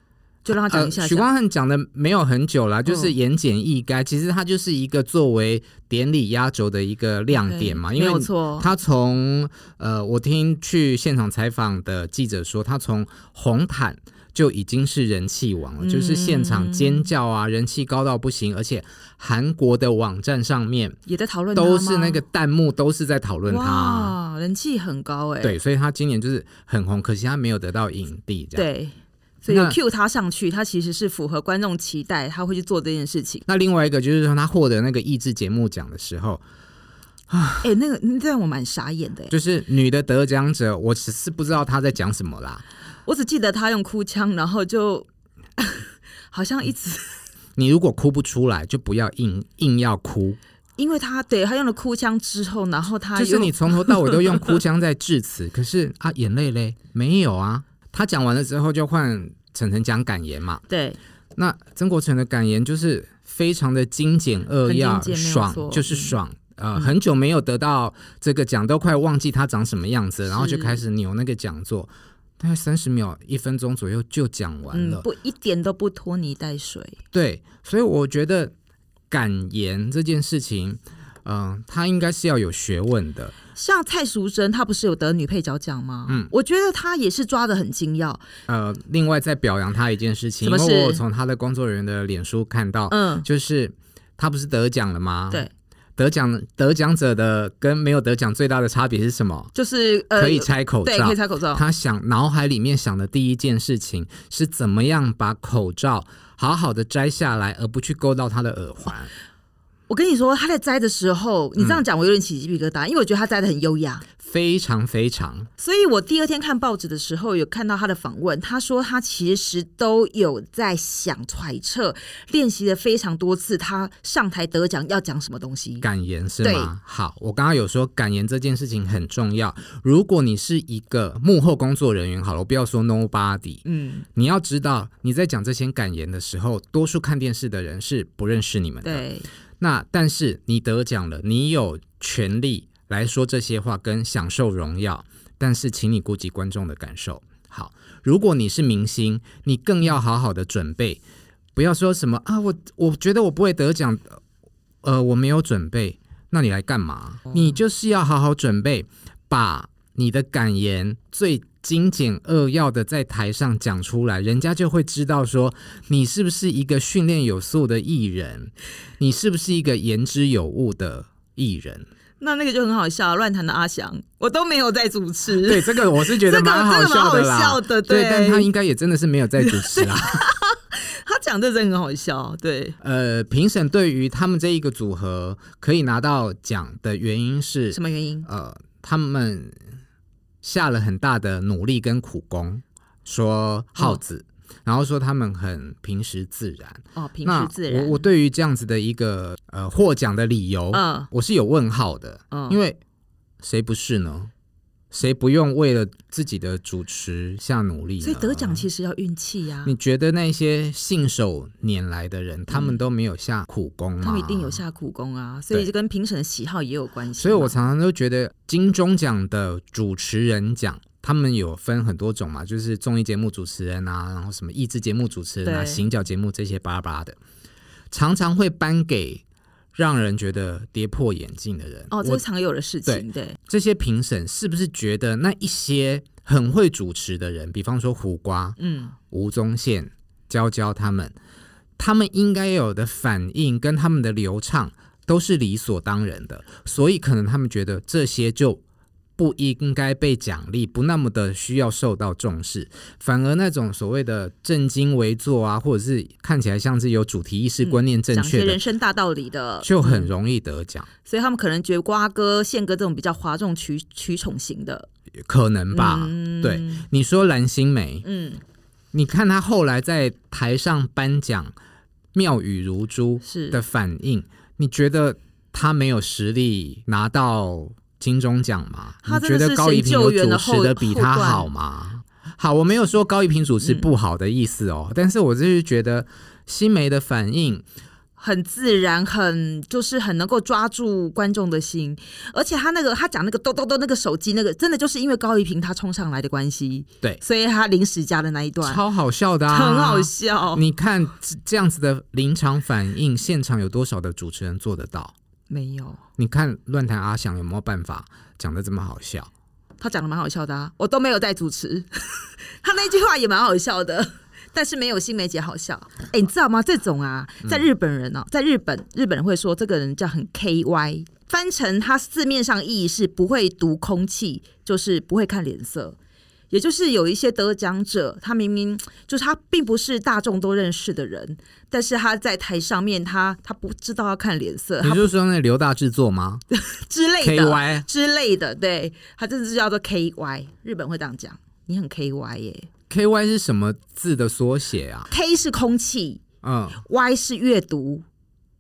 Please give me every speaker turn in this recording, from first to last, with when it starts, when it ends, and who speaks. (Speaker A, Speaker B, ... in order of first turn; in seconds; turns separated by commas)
Speaker A: 0.5-1.2, Speaker B: 0.5-21.0, Speaker A: 2.9-3.1, Speaker A: 7.3-8.7, Speaker A: 15.8-17.1, Speaker A: 21.1-22.2, Speaker B: 21.5-24.1, Speaker A: 23.5-25.6, Speaker B: 25.4-28.7, Speaker A: 28.6-33.5, Speaker B: 29.5-29.8, Speaker B: 33.5-36.4, Speaker B: 37.3-37.6, Speaker A: 37.6-39.3, Speaker B: 39.3-42.6, Speaker A: 43.1-45.1, Speaker A: 45.6-47.2, Speaker B: 47.6-50.4, Speaker A: 50.8-54.6, Speaker B: 53.1-60.6, Speaker A: 60.7-61.0, Speaker B: 61.4-75.0, Speaker A: 64.6-66.2, Speaker A: 70.3-70.8, Speaker A: 74.7-77.0, Speaker B: 77.1-78.5, Speaker B: 79.1-83.3, Speaker A: 83.5-88.2, Speaker B: 88.5-99.5, Speaker A: 90.4-91.0, Speaker A: 92.9-93.2, Speaker A: 99.5-101.6, Speaker B: 100.1-109.1, Speaker A: 109.9-114.1, Speaker B: 111.6-111.8, Speaker B: 114.2-115.5, Speaker A: 115.6-125.9, Speaker B: 125.8-133.6, Speaker A: 126.4-126.7, Speaker A: 133.7-134.1, Speaker B: 134.1-139.0, Speaker A: 138.8-139.3, Speaker B: 139.6-151.0, Speaker B: 151.5-154.2, Speaker B: 154.8-171.9, Speaker A: 172.2-178.5, Speaker B: 175.4-180.2, Speaker A: 179.4-182.8, Speaker B: 182.8-189.6, Speaker A: 187.7-188.3, Speaker B: 190.4-202.8, Speaker A: 196.9-198.0, Speaker A: 200.7-201.1, Speaker A: 202.3-202.6, Speaker B: 203.4-204.3, Speaker B: 204.9-208.7, Speaker A: 208.0-209.7, Speaker B: 209.6-214.6, Speaker A: 212.5-212.8, Speaker A: 214.0-217.6, Speaker B: 217.2-227.2, Speaker A: 225.4-225.8, Speaker B: 227.9-229.2, Speaker B: 229.8-232.2, Speaker A: 231.9-233.4, Speaker B: 232.9-238.6, Speaker A: 238.6-239.0, Speaker B: 239.1-241.1, Speaker B: 241.8-248.6, Speaker B: 249.2-258.6, Speaker A: 257.6-260.1, Speaker B: 259.6-260.9, Speaker A: 261.0-264.9, Speaker B: 265.2-268.0, Speaker A: 265.7-266.9, Speaker A: 268.0-268.4, Speaker B: 268.9-271.5, Speaker B: 272.1-287.6, Speaker A: 273.2-273.6, Speaker A: 279.0-281.5, Speaker A: 283.6-283.9, Speaker A: 288.2-298.8, Speaker B: 298.6-305.1, Speaker A: 299.5-300.6, Speaker A: 305.5-306.0, Speaker B: 306.2-309.3, Speaker A: 309.8-326.0, Speaker A: 326.5-335.1, Speaker B: 334.8-336.4, Speaker A: 336.5-342.7, Speaker B: 337.2-337.9, Speaker B: 342.9-345.1, Speaker A: 345.1-346.2, Speaker B: 346.4-346.8, Speaker A: 346.8-348.0